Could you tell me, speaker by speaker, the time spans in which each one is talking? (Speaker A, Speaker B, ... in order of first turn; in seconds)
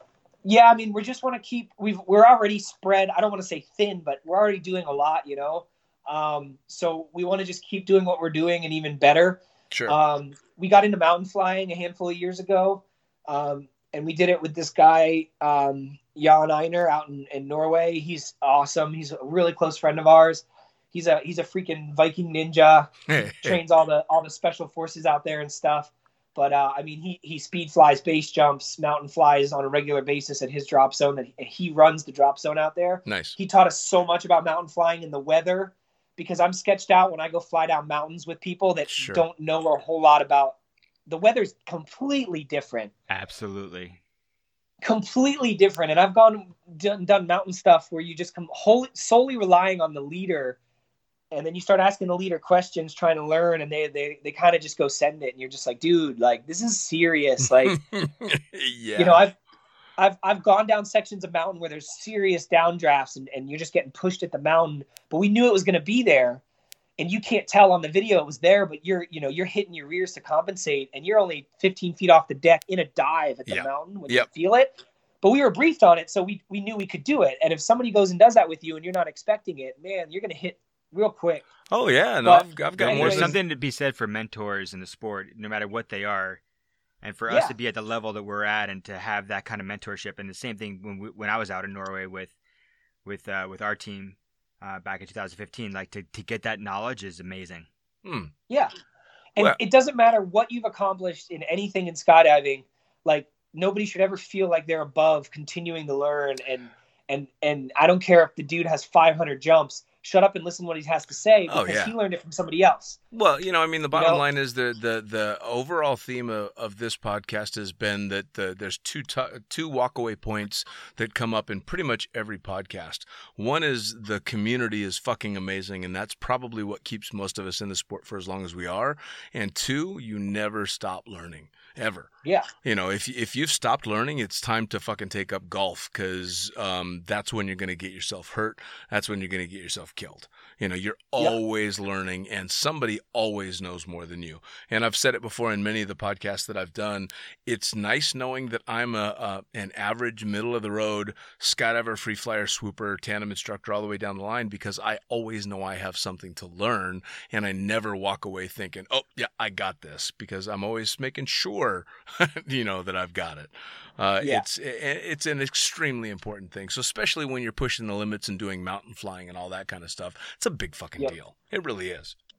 Speaker A: 0.4-42.9, 44.8-50.6, 51.3-57.8, 59.0-59.4, 60.0-66.4, 67.0-81.5, 82.2-83.4, 87.3-87.5, 99.3-113.0, 113.9-114.2
Speaker B: 9.7-10.0, 23.1-23.6, 33.1-33.4, 39.0-39.2, 57.6-59.2, 73.5-74.3, 81.7-83.4, 98.0-98.3, 111.5-111.9, 113.1-132.1, 132.6-172.2
Speaker C: 43.1-44.0, 82.8-86.4, 87.0-92.3, 93.0-97.7